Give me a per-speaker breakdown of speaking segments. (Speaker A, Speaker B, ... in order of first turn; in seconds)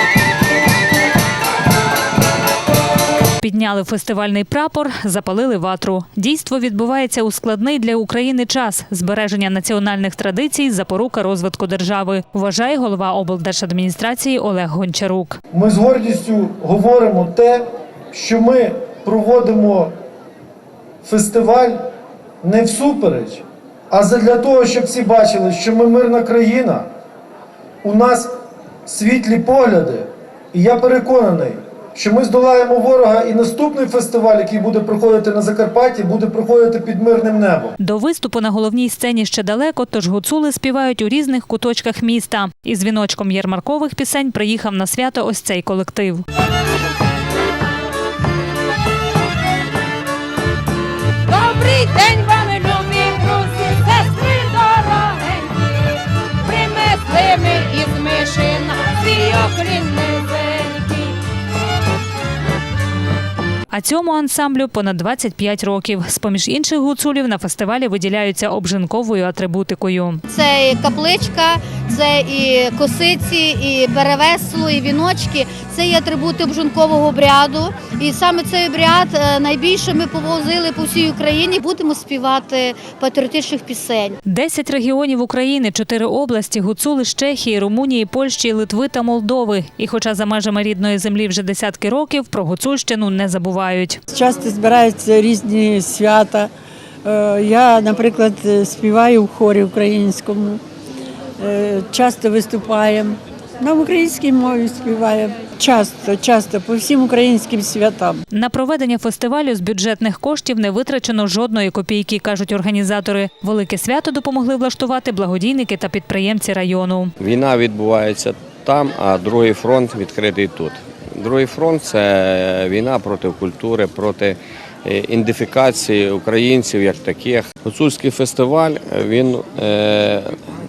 Speaker A: 3.4-15.4, 37.8-46.2, 63.7-70.2, 84.3-94.0, 108.3-117.1
Speaker B: 15.5-19.9, 21.0-21.8, 22.4-26.8, 27.8-28.3, 28.9-37.8
Speaker C: 51.3-55.7, 56.4-61.2
Speaker D: 70.3-84.2
Speaker E: 94.1-96.5, 97.0-100.6, 101.4-108.2
Speaker F: 117.2-130.2